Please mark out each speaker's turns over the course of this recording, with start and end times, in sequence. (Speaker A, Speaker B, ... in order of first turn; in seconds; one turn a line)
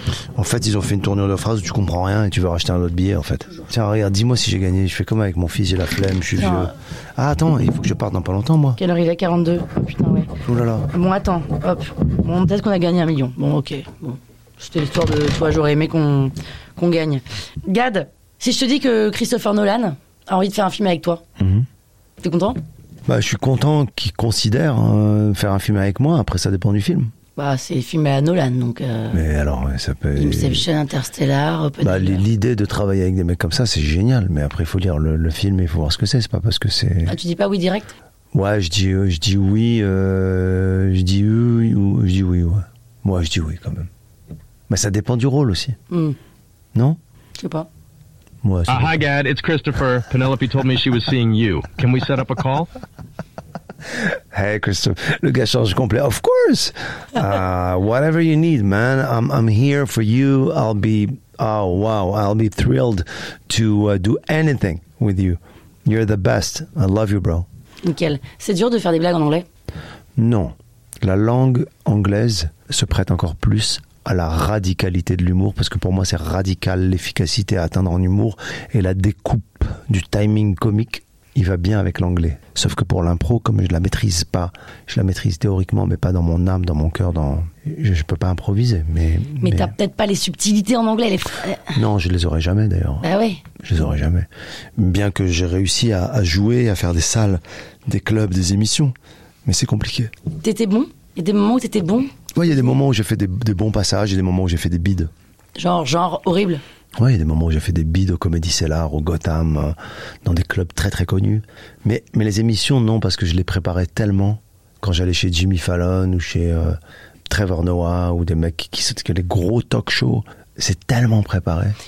Speaker A: 0.3-8.8
Speaker B: 6.4-6.7
Speaker B: 8.8-10.3
Speaker A: 10.4-10.9
Speaker B: 10.9-21.2
Speaker A: 21.4-21.7
Speaker B: 22.2-22.6
Speaker A: 23.1-27.1
Speaker B: 27.4-29.2
Speaker A: 29.1-30.6
Speaker B: 30.1-32.2
Speaker A: 31.8-37.2
Speaker B: 37.0-37.9
Speaker A: 38.3-43.9
Speaker A: 44.7-45.8
Speaker B: 45.9-46.2
Speaker A: 46.7-47.0
Speaker B: 47.4-47.7
Speaker A: 48.4-49.0
Speaker C: 48.7-52.7
Speaker A: 53.9-67.5
Speaker B: 67.8-69.5
Speaker A: 70.2-89.7
Speaker B: 89.4-91.8
Speaker A: 91.7-93.1
Speaker B: 93.0-93.4
Speaker A: 93.6-100.1
Speaker B: 100.4-102.7
Speaker A: 102.3-105.1
Speaker B: 105.5-106.6
Speaker A: 107.0-121.8